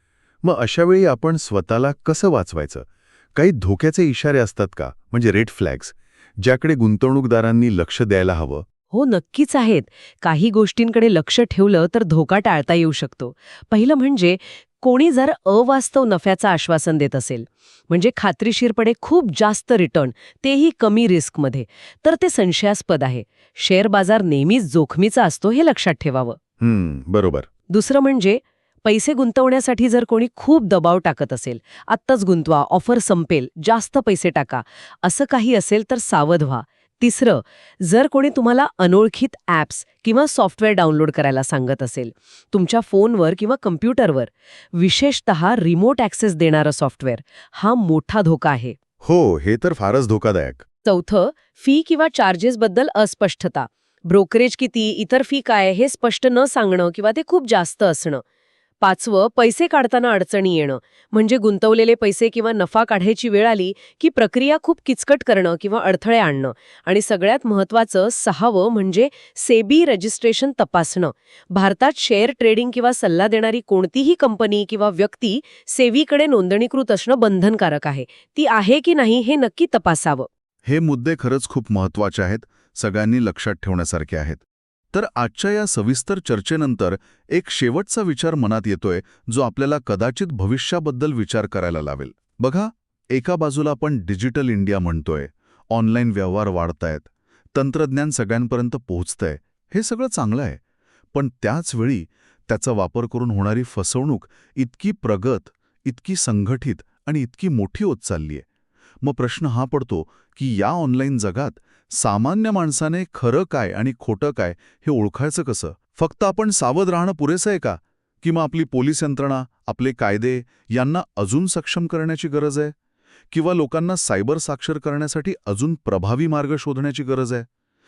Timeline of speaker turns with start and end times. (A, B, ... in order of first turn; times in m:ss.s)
0:00.4-0:08.6 A
0:08.9-0:26.4 B
0:26.6-0:27.5 A
0:27.7-0:48.8 B
0:49.0-0:50.6 A
0:50.8-0:58.2 B
0:58.8-1:20.3 B
1:20.6-1:24.4 A
1:24.9-1:40.6 A
1:41.1-1:48.5 A
1:49.0-2:02.7 A
2:03.3-2:07.5 A